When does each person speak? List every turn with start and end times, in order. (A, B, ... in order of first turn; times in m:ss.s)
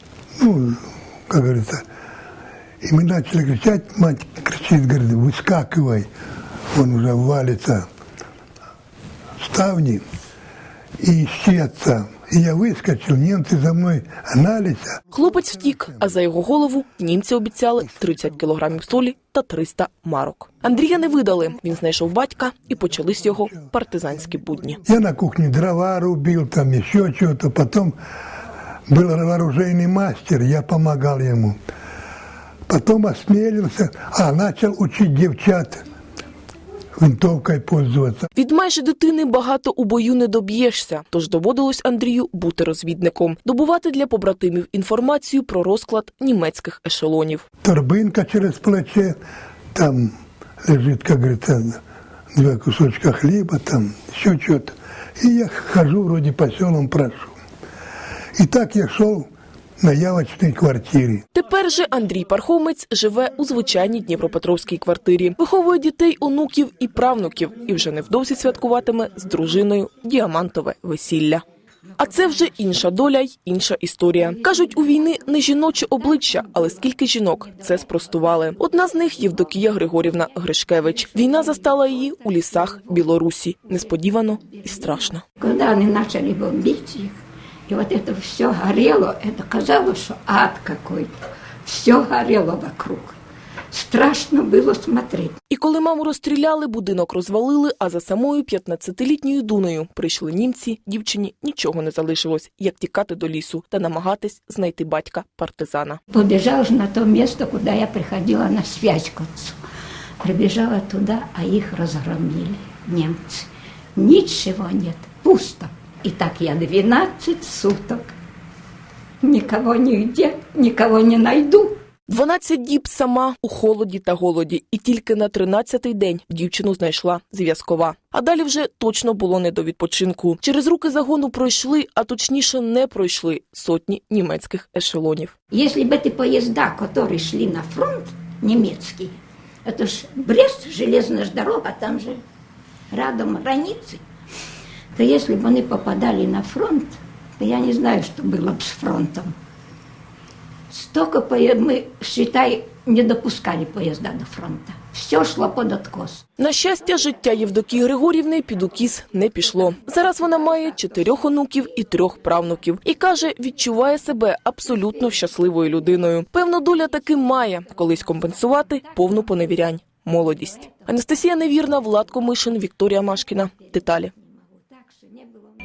0:00.4-0:01.8 A
0:02.8-0:06.1 A
0:06.7-0:07.9 A
0:09.4-0:10.0 A
0:11.0-0:15.0 A
0:15.1-0:24.8 B
0:24.9-0:28.0 A
0:28.9-0:31.6 A
0:32.7-0:35.8 A
0:37.0-0:38.3 A
0:38.4-0:47.4 B
0:47.6-0:49.2 A
0:49.7-0:50.1 A
0:50.6-0:51.8 A
0:52.4-0:57.4 A
0:58.4-0:59.3 A
0:59.8-1:01.2 A
1:01.3-1:11.4 B
1:12.0-1:25.2 B
1:25.4-1:27.2 C
1:27.7-1:33.2 C
1:33.7-1:35.4 C
1:35.5-1:46.0 B
1:46.1-1:49.6 C
1:50.2-1:58.1 C
1:59.2-2:01.8 C
2:02.1-2:15.3 B
2:15.5-2:22.2 C
2:22.9-2:24.0 C
2:25.0-2:29.3 C
2:30.7-2:36.2 C
2:36.4-2:54.1 B
2:54.5-2:55.5 C